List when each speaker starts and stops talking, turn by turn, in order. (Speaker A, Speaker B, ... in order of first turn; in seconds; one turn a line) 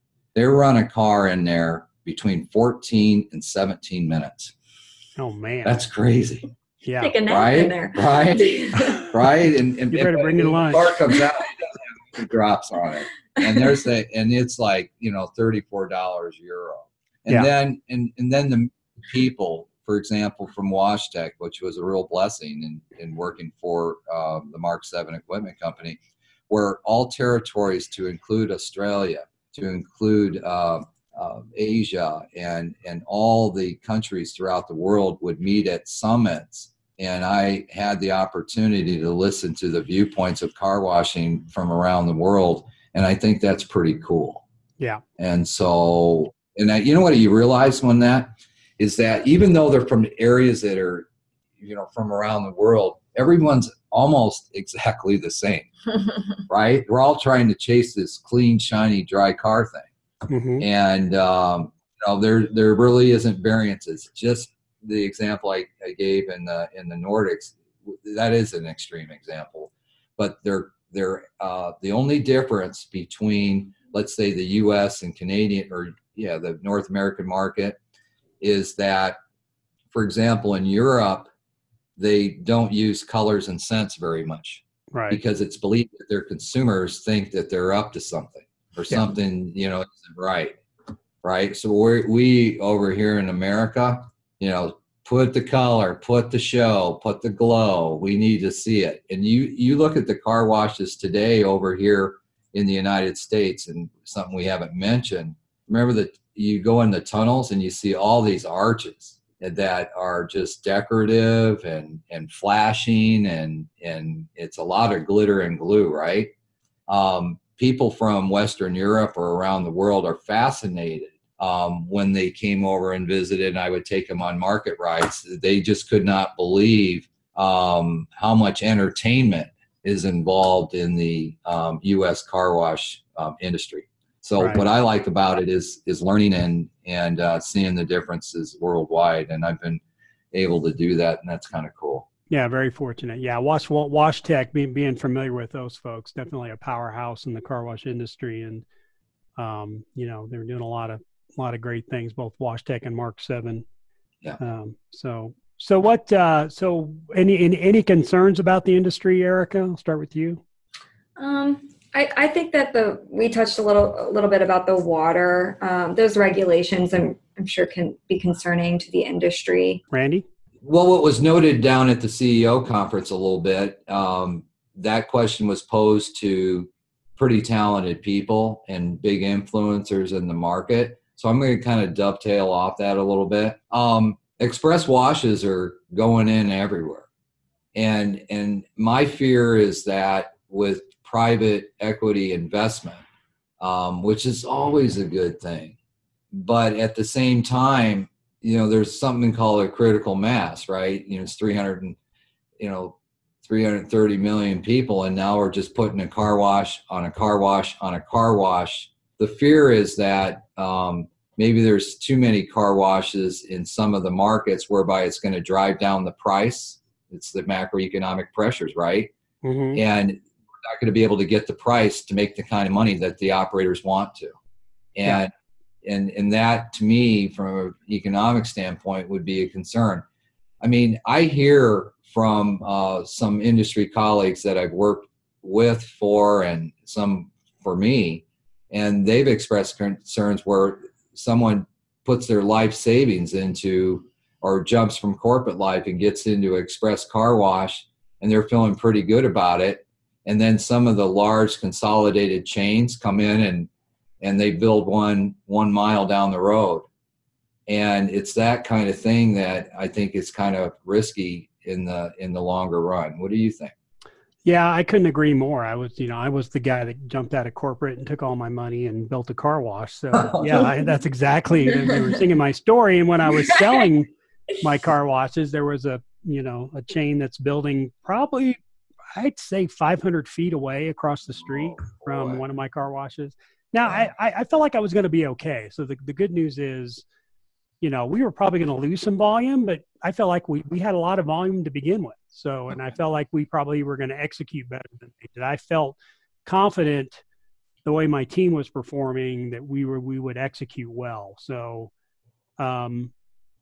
Speaker A: 0.3-4.5
Speaker B: 5.2-5.8
Speaker A: 5.6-6.5
Speaker B: 6.8-7.1
Speaker C: 7.0-9.0
Speaker A: 7.3-44.4
Speaker B: 9.9-10.9
Speaker A: 45.2-51.1
Speaker A: 51.6-55.7
Speaker A: 56.5-59.9
Speaker B: 60.3-60.6
Speaker A: 60.6-77.8
Speaker A: 78.4-79.2
Speaker A: 79.9-81.3
Speaker A: 82.0-90.6
Speaker B: 84.9-85.2
Speaker A: 91.2-116.3
Speaker A: 116.9-142.1
Speaker B: 134.4-134.6
Speaker B: 142.3-148.7
Speaker B: 149.4-153.6
Speaker B: 154.4-160.4
Speaker C: 161.2-169.8
Speaker B: 169.9-170.2
Speaker A: 170.6-187.1
Speaker A: 187.7-193.0
Speaker A: 193.6-195.8
Speaker A: 196.3-202.0
Speaker A: 202.6-219.1
Speaker B: 219.4-219.8
Speaker A: 219.7-224.3
Speaker A: 224.9-225.3
Speaker A: 225.8-230.0
Speaker A: 230.6-253.7
Speaker A: 254.2-256.9
Speaker A: 257.7-263.7
Speaker B: 264.4-278.6
Speaker A: 270.1-270.6
Speaker B: 279.1-287.0
Speaker A: 281.4-282.4
Speaker B: 287.8-297.2
Speaker B: 297.8-301.9
Speaker B: 302.6-303.1